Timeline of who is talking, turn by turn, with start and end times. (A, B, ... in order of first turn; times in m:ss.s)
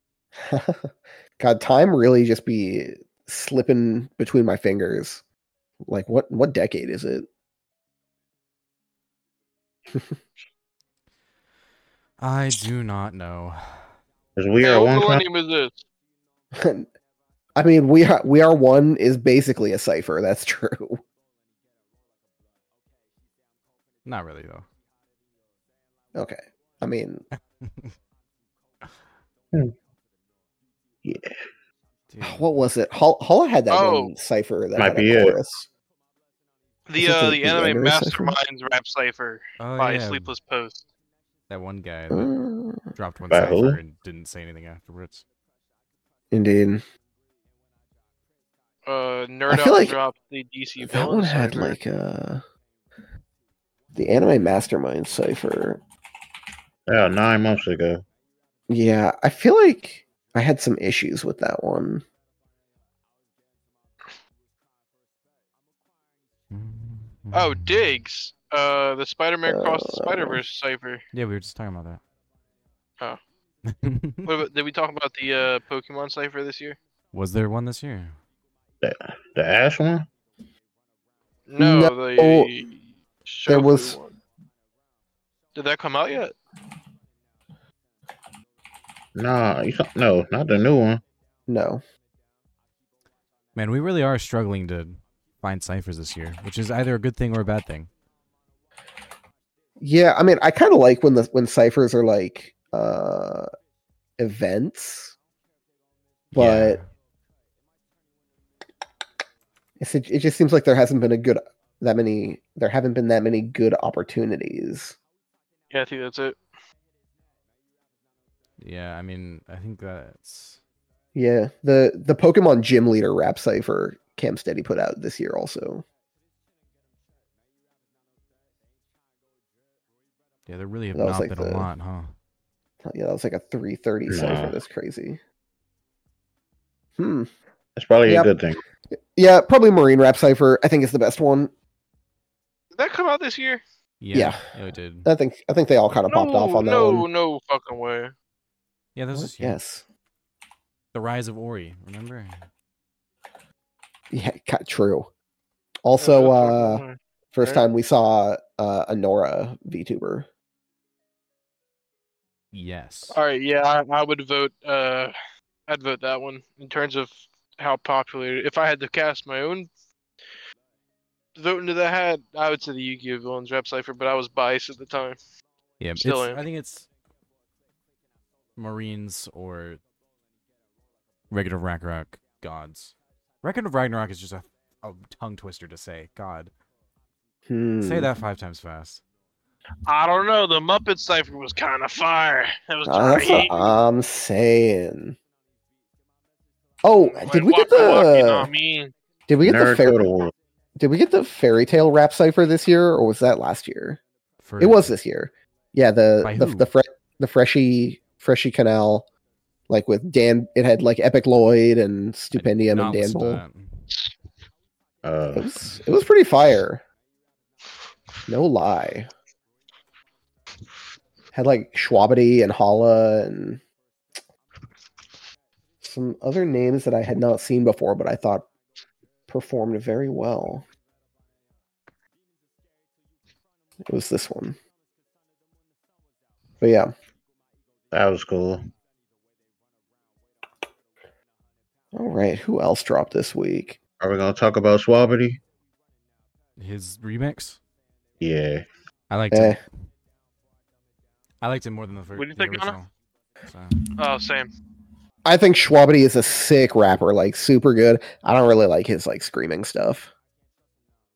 0:00.4-0:05.2 A
0:05.8-0:07.3 A
0:12.2-0:13.9 B
0:14.4-0:15.2 C
0:14.6-0:15.8 D
0:16.5-0:16.9 A
0:17.6-0:21.0 A
0:24.0-0:24.6 B
0:26.1-0:27.2 A
0:27.6-0:27.9 B
0:31.0-0:31.4 C
0:32.1-0:32.5 B
0:32.2-0:35.7 A
0:33.7-0:34.1 D
0:34.8-0:35.4 C
0:36.9-0:40.8 D
0:37.0-0:38.3 A
0:39.6-0:40.3 B
0:41.5-0:42.3 B
0:42.1-0:42.8 A
0:42.9-0:45.2 B
0:43.3-0:43.8 C
0:46.3-0:46.8 A
0:48.8-0:51.8 D
0:49.5-0:50.0 A
0:50.8-0:52.4 A
0:53.9-0:55.8 A
0:56.9-0:58.0 C
0:58.7-1:02.0 A
1:06.5-1:07.7 B
1:07.3-1:11.0 D
1:09.5-1:10.4 A
1:11.1-1:12.0 B
1:13.7-1:14.3 B
1:14.2-1:16.8 D
1:17.1-1:18.2 B
1:18.8-1:20.1 C
1:21.5-1:24.2 D
1:21.6-1:22.5 A
1:23.5-1:24.0 A
1:25.6-1:26.3 D
1:29.1-1:31.0 C
1:31.5-1:31.8 A
1:33.5-1:37.9 B
1:39.8-1:43.5 A
1:44.2-1:45.1 A
1:46.3-1:46.8 A
1:46.3-1:46.8 B
1:49.8-1:55.0 A
1:55.7-1:56.4 D
1:58.6-2:00.6 B
2:01.1-2:05.8 A
2:10.5-2:12.1 B
2:10.9-2:11.7 A
2:12.8-2:15.2 A
2:14.1-2:14.6 C
2:17.0-2:17.3 A
2:17.8-2:18.6 C
2:18.0-2:18.3 A
2:19.1-2:21.5 A
2:22.8-2:23.6 D
2:24.0-2:25.1 B
2:24.1-2:24.4 A
2:25.0-2:27.1 A
2:26.1-2:28.1 D
2:28.9-2:29.6 B
2:29.1-2:29.8 A
2:30.9-2:32.4 B
2:34.1-2:35.1 A
2:35.8-2:36.8 A
2:36.0-2:37.6 D
2:37.3-2:40.3 A
2:42.5-2:43.2 B
2:43.1-2:45.1 D
2:45.7-2:49.7 D
2:51.4-2:55.2 D
2:55.8-2:56.9 B
2:56.0-2:56.4 D
2:58.6-2:59.8 B
3:01.3-3:06.5 B
3:07.5-3:08.1 A
3:07.8-3:09.0 B
3:09.9-3:13.7 D
3:12.8-3:15.2 A
3:16.8-3:18.5 A
3:17.0-3:18.9 D
3:19.3-3:20.1 A
3:19.4-3:20.3 C
3:20.8-3:24.0 A
3:24.4-3:24.9 B
3:24.6-3:29.0 A
3:26.2-3:26.7 B
3:29.7-3:33.4 A
3:32.3-3:33.8 B
3:35.0-3:35.6 C
3:35.3-3:36.8 A
3:38.3-3:39.1 A
3:41.3-3:43.6 A
3:45.8-3:48.5 A
3:49.3-3:50.6 A
3:53.8-3:54.6 A
3:56.6-3:56.9 A
3:57.9-3:58.6 C
4:01.9-4:03.8 A
4:04.0-4:05.4 C
4:06.6-4:07.6 B
4:08.2-4:08.6 C
4:09.1-4:09.6 B
4:09.3-4:09.6 A
4:11.4-4:12.9 B
4:12.1-4:12.8 D
4:13.5-4:13.7 B
4:14.0-4:14.5 D
4:15.2-4:20.1 A